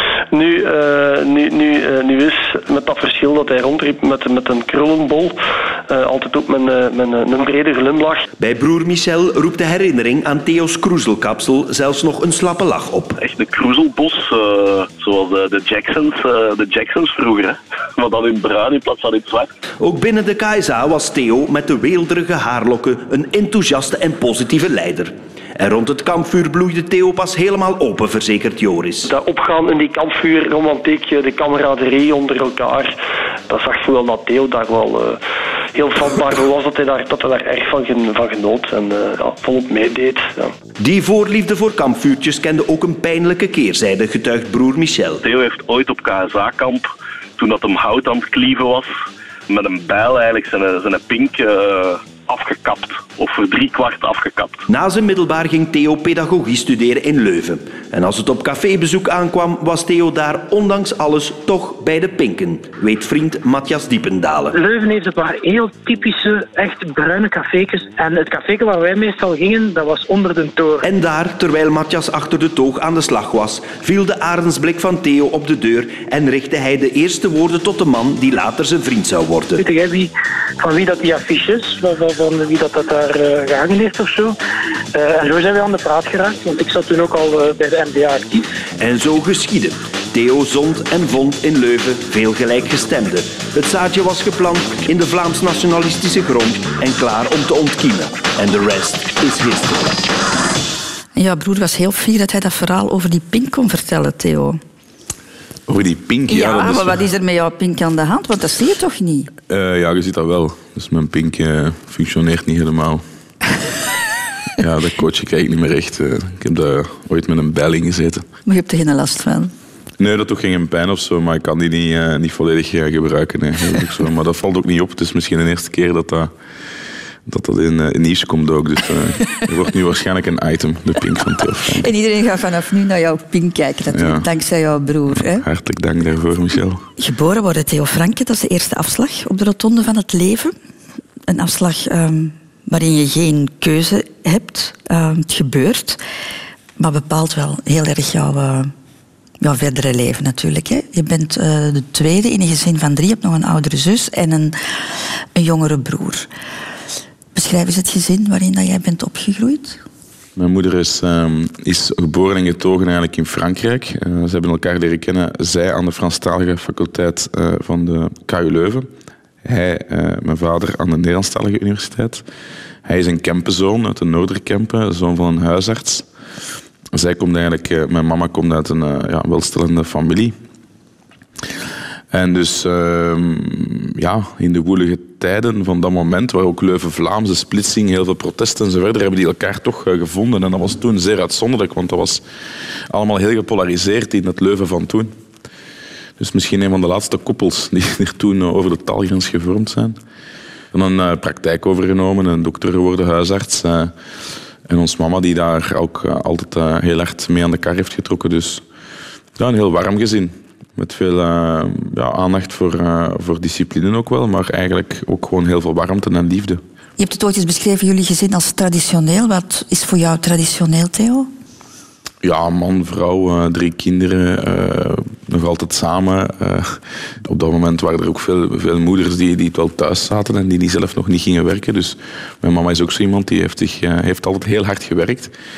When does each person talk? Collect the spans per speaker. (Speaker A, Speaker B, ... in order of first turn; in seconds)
Speaker A: 0.3-8.2, 29.1-33.0, 33.5-35.2, 35.7-40.5
Speaker B: 8.4-13.2, 19.8-29.1, 40.8-45.2, 54.7-64.5, 70.8-79.6, 88.8-100.0
Speaker C: 13.2-19.5, 45.2-48.9, 49.5-54.7
Speaker D: 64.5-70.8, 79.6-84.3, 84.9-88.5
Speaker E: 101.1-104.6, 106.3-109.3, 118.4-119.5, 131.7-135.4, 137.0-140.5, 141.3-146.0, 146.8-148.7, 149.4-156.3, 157.3-159.8, 217.0-221.3
Speaker F: 105.7-107.0, 109.5-113.0, 114.6-118.2, 120.0-126.3, 127.2-131.9, 133.9-134.3, 135.1-136.8, 160.3-168.9, 169.4-172.2, 172.8-176.1, 176.9-180.3, 182.1-192.2, 192.9-195.1, 196.2-200.0, 200.7-203.9, 204.7-208.6, 209.3-216.6, 222.2-235.3